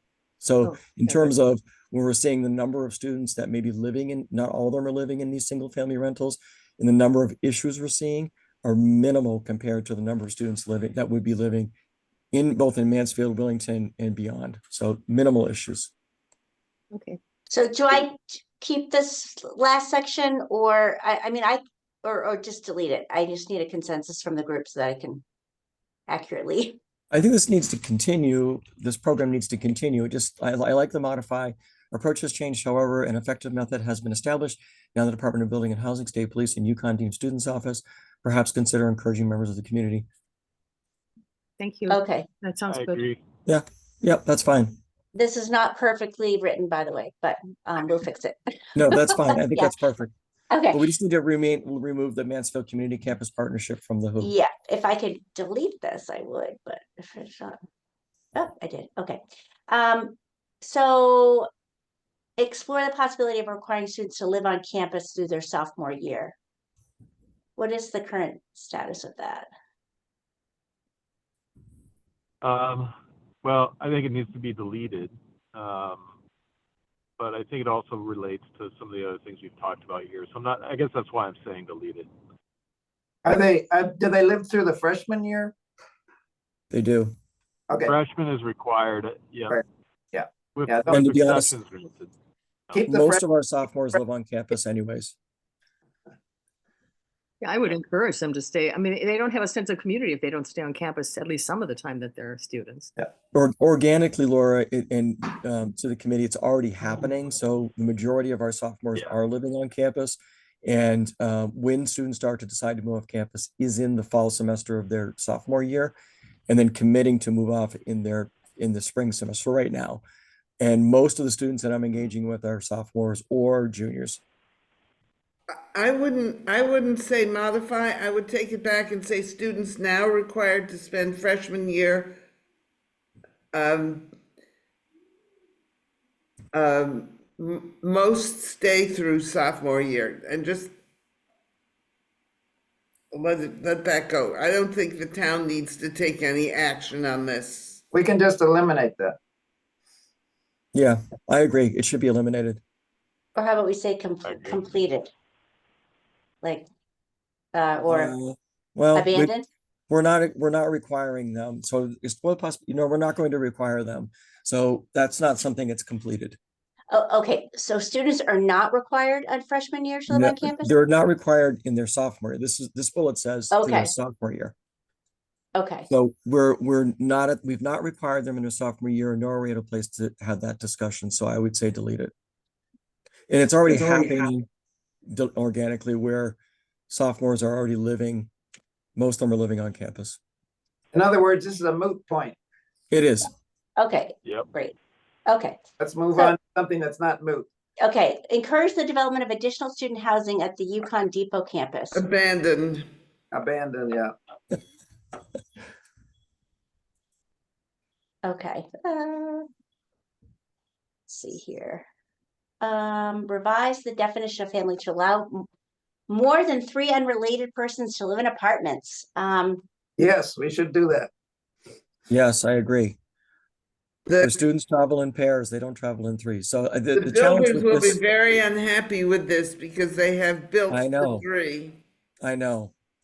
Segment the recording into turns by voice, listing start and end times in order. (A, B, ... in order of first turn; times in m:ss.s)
0:00.4-0:11.7 A
0:00.6-0:01.3 B
0:12.3-0:15.9 A
0:16.9-0:17.2 B
0:17.5-0:25.2 C
0:26.1-0:26.8 C
0:27.1-0:40.0 A
0:41.6-0:43.0 B
0:41.9-0:42.3 C
0:42.7-0:43.2 D
0:43.4-0:44.8 A
0:45.1-0:49.7 C
0:48.7-0:50.1 A
0:50.5-0:50.8 C
0:50.7-0:54.3 A
0:54.2-0:57.6 C
0:58.4-1:01.5 C
1:02.4-1:06.3 C
1:07.6-1:09.5 C
1:12.4-1:12.9 D
1:13.4-1:16.0 D
1:17.2-1:22.1 D
1:23.2-1:25.5 E
1:26.7-1:27.1 A
1:27.7-1:28.0 E
1:27.8-1:29.6 D
1:29.5-1:31.1 E
1:30.5-1:32.1 D
1:30.9-1:31.5 A
1:32.7-1:33.2 E
1:32.8-1:35.2 A
1:37.4-1:42.9 B
1:43.3-1:56.0 A
1:56.5-2:00.0 A
2:00.6-2:04.2 A
2:05.8-2:12.1 F
2:13.5-2:14.1 F
2:16.5-2:20.7 F
2:23.1-2:27.8 F
2:27.9-2:29.2 E
2:30.7-2:32.6 A
2:33.4-2:35.1 C
2:34.2-2:34.6 D
2:37.5-2:38.1 C
2:37.9-2:39.3 A
2:38.9-2:39.5 C
2:39.9-2:46.4 A
2:46.9-2:50.7 C
2:50.1-2:54.5 A
2:53.5-2:53.9 C
2:55.5-2:55.9 C
2:55.9-3:02.1 A
3:03.3-3:04.4 A
3:03.8-3:04.3 E
3:05.1-3:06.4 A
3:06.9-3:08.3 A
3:09.0-3:10.2 A
3:10.9-3:12.4 E
3:12.9-3:13.3 A
3:13.8-3:14.7 C
3:15.3-3:15.6 C
3:15.8-3:17.5 E
3:17.8-3:22.0 C
3:22.0-3:22.8 F
3:23.3-3:24.1 E
3:28.2-3:29.4 C
3:31.1-3:31.8 C
3:32.6-3:35.4 C
3:36.1-3:39.6 C
3:40.0-3:41.1 E
3:42.1-3:43.0 A
3:44.2-3:48.0 A
3:47.1-3:51.8 F
3:50.7-3:51.2 A
3:52.2-3:52.7 A